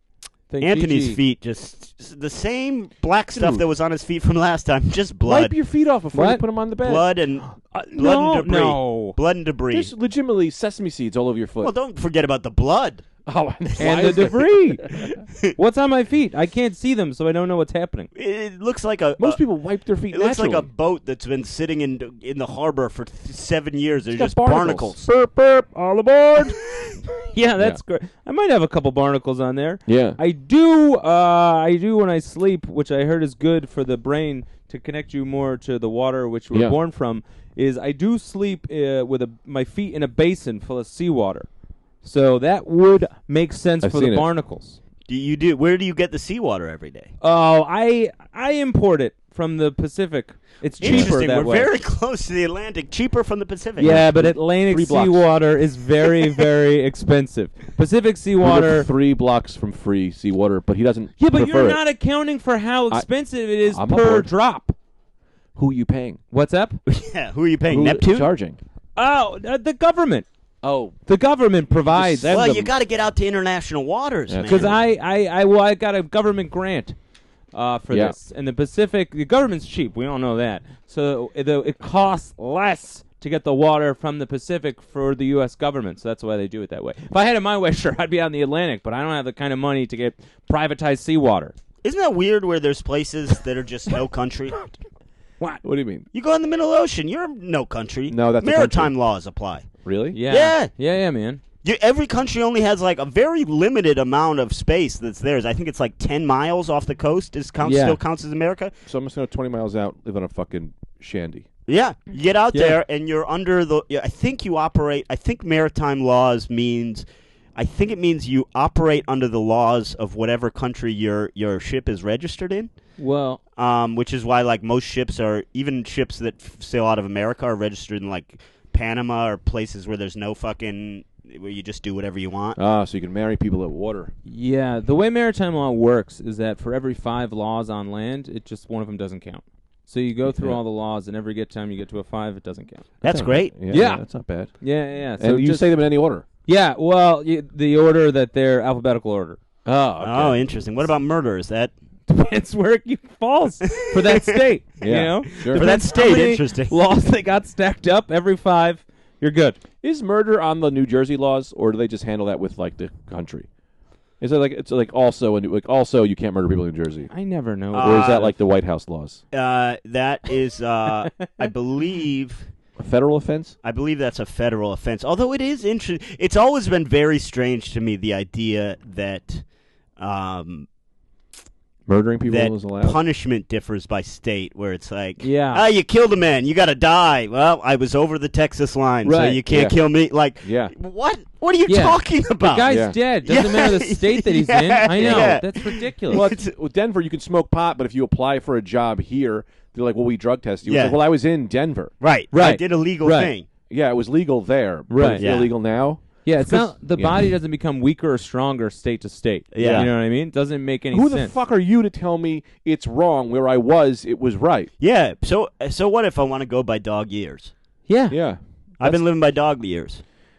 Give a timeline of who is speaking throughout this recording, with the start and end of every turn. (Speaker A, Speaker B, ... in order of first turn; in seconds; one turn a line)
Speaker A: 0.5-1.2
Speaker B: 0.6-5.5
Speaker C: 3.3-3.6
Speaker C: 5.3-7.1
Speaker A: 6.1-6.4
Speaker B: 6.8-9.9
Speaker A: 7.4-9.2
Speaker C: 9.7-11.7
Speaker B: 11.6-13.1
Speaker C: 13.3-15.1
Speaker B: 13.7-14.3
Speaker A: 13.8-14.9
Speaker A: 15.6-18.1
Speaker B: 18.1-19.4
Speaker C: 19.2-20.7
Speaker B: 20.1-25.1
Speaker C: 24.1-25.0
Speaker A: 25.1-26.6
Speaker A: 27.2-41.5
Speaker C: 29.9-30.2
Speaker A: 42.0-44.8
Speaker C: 43.8-44.3
Speaker B: 45.1-47.1
Speaker A: 47.2-51.7
Speaker B: 50.8-54.0
Speaker C: 50.8-51.2
Speaker A: 53.8-58.9
Speaker C: 53.8-55.2
Speaker C: 58.4-61.8
Speaker A: 61.2-64.8
Speaker C: 63.7-64.3
Speaker C: 65.5-66.2
Speaker A: 66.3-66.8
Speaker B: 66.9-68.3
Speaker C: 67.7-68.6
Speaker A: 69.0-70.3
Speaker C: 70.6-71.0
Speaker A: 71.1-72.4
Speaker C: 71.9-72.7
Speaker B: 72.3-74.7
Speaker C: 74.3-74.8
Speaker A: 74.5-77.0
Speaker A: 77.5-91.5
Speaker C: 77.9-78.2
Speaker B: 91.8-94.7
Speaker C: 95.6-96.1
Speaker B: 96.1-99.7
Speaker C: 98.1-98.9
Speaker C: 99.8-100.2
Speaker A: 100.1-101.4
Speaker B: 100.3-100.7
Speaker B: 101.6-108.7
Speaker A: 107.6-108.0
Speaker C: 108.9-111.5
Speaker B: 111.7-117.0
Speaker B: 117.6-122.7
Speaker A: 123.0-123.4
Speaker B: 123.6-132.6
Speaker C: 132.6-134.1
Speaker A: 134.3-142.9
Speaker C: 140.2-140.6
Speaker B: 143.0-143.5
Speaker C: 143.0-144.6
Speaker A: 143.7-144.0
Speaker A: 144.6-145.7
Speaker C: 145.2-146.2
Speaker A: 146.5-149.4
Speaker C: 149.7-150.4
Speaker B: 150.0-151.7
Speaker A: 152.1-159.6
Speaker B: 153.7-154.4
Speaker C: 154.8-155.7
Speaker B: 155.4-156.7
Speaker C: 159.8-163.5
Speaker C: 164.2-167.1
Speaker A: 167.1-168.3
Speaker B: 167.7-168.3
Speaker C: 167.8-169.2
Speaker B: 169.3-172.5
Speaker A: 171.0-171.5
Speaker C: 172.8-173.6
Speaker B: 173.6-179.4
Speaker B: 180.0-180.7
Speaker C: 181.9-183.0
Speaker B: 182.3-196.5
Speaker A: 185.2-185.6
Speaker A: 189.1-189.4
Speaker C: 189.5-189.8
Speaker C: 190.4-190.7
Speaker A: 191.7-196.2
Speaker C: 192.7-193.0
Speaker C: 195.0-195.4
Speaker C: 196.1-201.9
Speaker B: 200.7-201.0
Speaker B: 202.0-203.5
Speaker A: 202.3-203.3
Speaker C: 203.7-207.3
Speaker A: 204.9-205.3
Speaker B: 205.2-205.5
Speaker A: 206.2-211.3
Speaker B: 209.5-209.9
Speaker C: 209.6-209.9
Speaker C: 210.9-214.7
Speaker B: 214.8-217.5
Speaker A: 217.9-218.2
Speaker C: 218.1-219.0
Speaker B: 218.8-220.0